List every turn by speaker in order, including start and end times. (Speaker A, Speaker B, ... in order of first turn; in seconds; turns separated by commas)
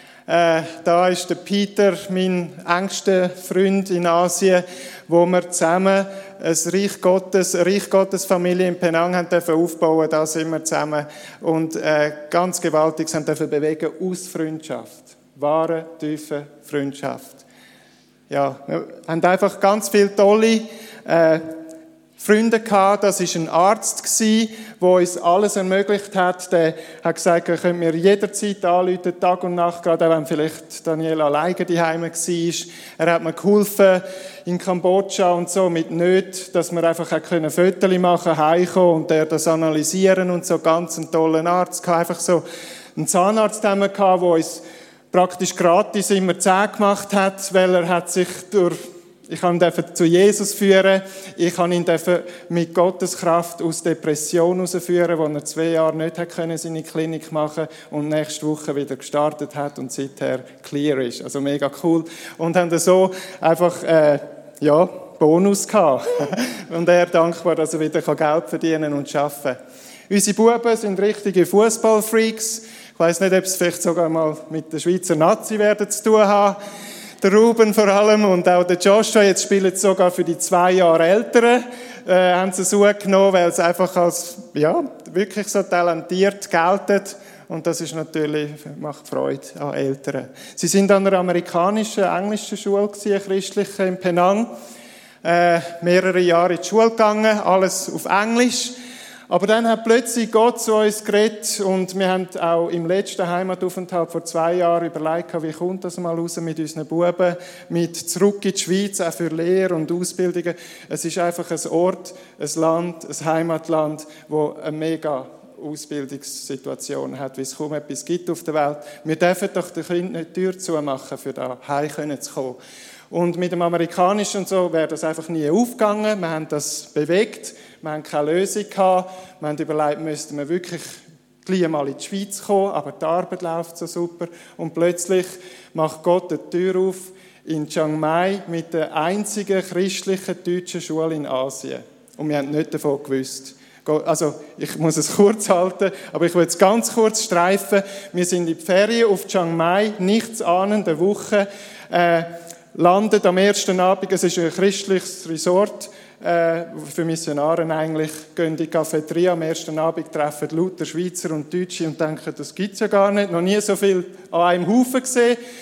Speaker A: 0.3-17.4, Speaker A: 18.3-21.5, Speaker A: 22.2-42.4, Speaker A: 43.0-69.6, Speaker A: 70.1-76.6, Speaker A: 77.2-94.5, Speaker A: 95.2-98.8, Speaker A: 99.3-122.6, Speaker A: 123.1-165.4